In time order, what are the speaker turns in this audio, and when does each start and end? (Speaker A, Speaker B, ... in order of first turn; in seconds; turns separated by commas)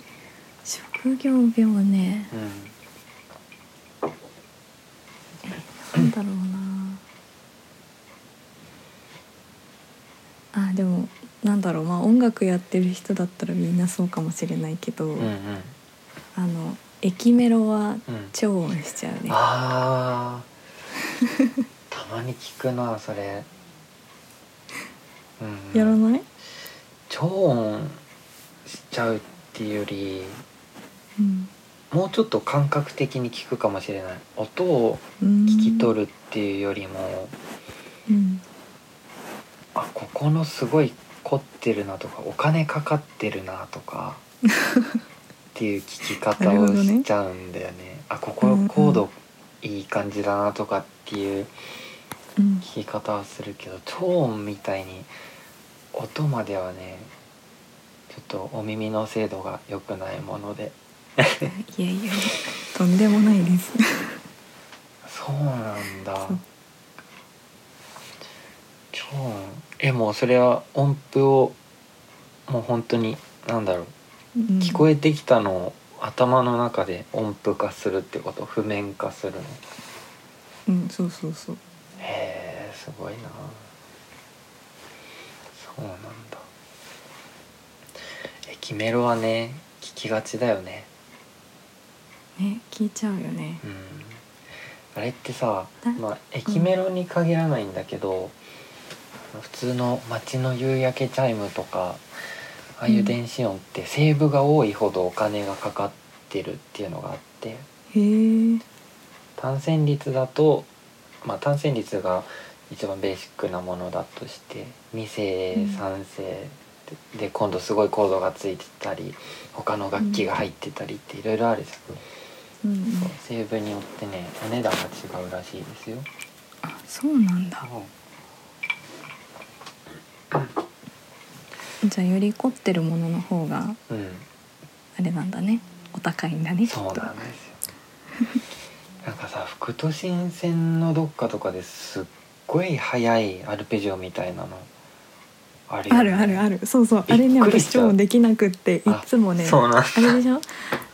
Speaker A: 0.7-2.3, Speaker B: 2.3-2.7, Speaker A: 5.5-7.0, Speaker A: 10.5-15.3, Speaker B: 15.2-15.7, Speaker A: 16.4-19.4, Speaker B: 18.1-18.3, Speaker B: 19.3-20.5, Speaker A: 21.2-21.5, Speaker B: 21.9-23.5, Speaker B: 25.4-26.0, Speaker A: 25.7-26.2, Speaker B: 27.1-28.0, Speaker B: 28.7-30.4, Speaker A: 31.2-31.5, Speaker B: 31.9-37.3, Speaker A: 35.2-35.9, Speaker A: 38.1-38.4, Speaker B: 39.8-44.2, Speaker A: 44.6-44.9, Speaker B: 45.5-51.5, Speaker A: 46.4-47.1, Speaker A: 48.4-49.0, Speaker A: 52.4-52.7, Speaker B: 52.6-55.1, Speaker B: 55.9-57.1, Speaker B: 58.1-61.5, Speaker A: 61.4-64.2, Speaker B: 65.0-66.4, Speaker B: 68.9-71.6, Speaker B: 72.5-73.9, Speaker A: 74.4-74.8, Speaker B: 74.6-79.6, Speaker A: 80.7-81.6, Speaker B: 82.0-83.7, Speaker B: 85.5-86.5, Speaker B: 88.5-90.9, Speaker A: 92.4-93.6, Speaker B: 93.6-94.2, Speaker B: 94.9-98.4, Speaker A: 95.8-96.7, Speaker B: 99.3-102.0, Speaker B: 102.8-107.7, Speaker A: 102.9-103.2, Speaker A: 107.9-108.6, Speaker B: 109.4-110.7, Speaker B: 111.2-122.0, Speaker A: 115.5-115.8, Speaker A: 120.0-120.2, Speaker A: 122.6-123.1, Speaker B: 123.0-126.1, Speaker A: 126.6-127.7, Speaker B: 127.6-127.9, Speaker A: 131.8-133.8, Speaker B: 133.9-134.3, Speaker A: 135.0-137.2, Speaker B: 136.7-137.6, Speaker B: 139.0-144.7, Speaker B: 145.7-146.4, Speaker A: 145.9-150.8, Speaker B: 147.1-148.0, Speaker B: 148.9-150.2